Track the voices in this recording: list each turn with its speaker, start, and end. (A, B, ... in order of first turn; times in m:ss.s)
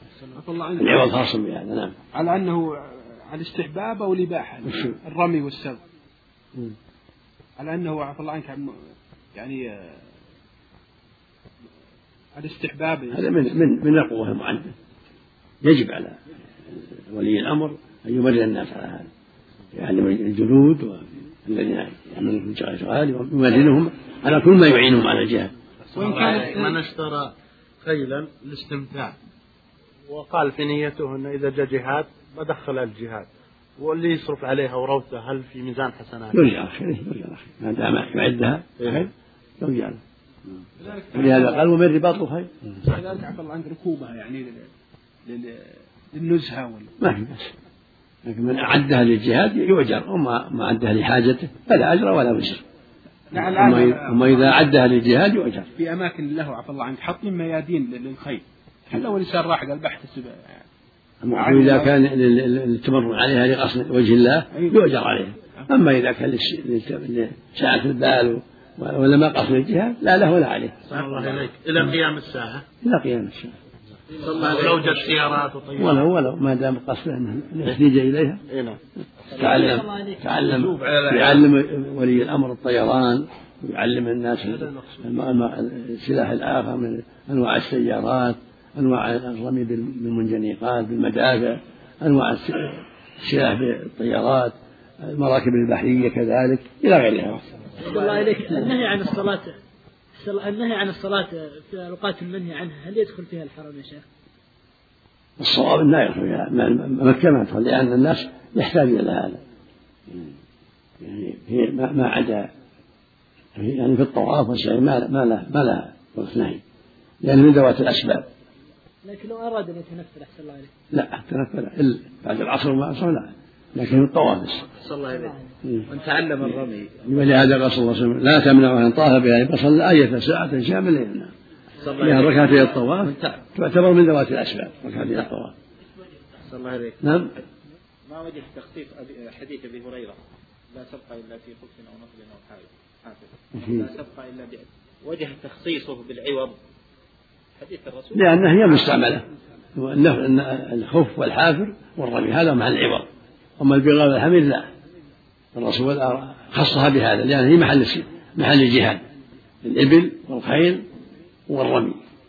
0:00.4-0:01.1 A
0:00.8-0:01.9 B
0:02.1-0:05.8 A
0:07.6-0:08.8 A
0:09.4-0:10.0 A
0:12.4-0:13.5 A
0:13.1-0:14.7 B
0:15.6-0:16.2 B
0:17.1-0:19.1 B
0:19.7-0:25.5 B
0:26.0-0:27.3 C
0:26.2-0:26.6 A
0:27.8-0:29.1 C
0:30.1-0:33.3 C
0:33.8-0:36.4 C
0:36.3-0:39.1 B
0:39.6-0:40.0 B
0:41.0-0:41.6 A
0:41.1-0:42.5 B
0:42.9-0:44.7 A
0:45.3-0:46.9 A
0:47.0-0:47.5 B
0:48.2-0:52.6 B
0:53.3-0:54.6 A
0:53.4-0:55.7 B
0:55.8-1:00.5 A
1:01.2-1:11.4 B
1:01.3-1:01.9 A
1:10.9-1:12.6 C
1:12.8-1:13.5 B
1:14.2-1:16.0 C
1:15.8-1:18.4 B
1:18.5-1:18.8 C
1:19.3-1:37.5 B
1:20.4-1:21.4 C
1:37.8-1:39.5 D
1:40.2-1:44.0 D
1:45.4-1:49.4 B
1:51.0-1:52.5 B
1:53.6-1:56.6 B
1:57.2-1:58.2 B
1:59.1-2:00.7 D
2:00.9-2:04.6 B
2:04.7-2:05.3 E
2:05.8-2:07.2 E
2:07.0-2:11.3 B
2:11.8-2:13.4 E
2:12.0-2:15.5 B
2:16.4-2:17.0 E
2:17.0-2:17.3 B
2:18.1-2:20.2 E
2:20.7-2:26.6 E
2:27.6-2:28.9 E
2:28.1-2:29.2 B
2:29.8-2:33.1 B
2:33.6-2:34.7 B
2:35.6-2:39.0 B
2:39.6-2:40.8 B
2:41.5-2:42.0 B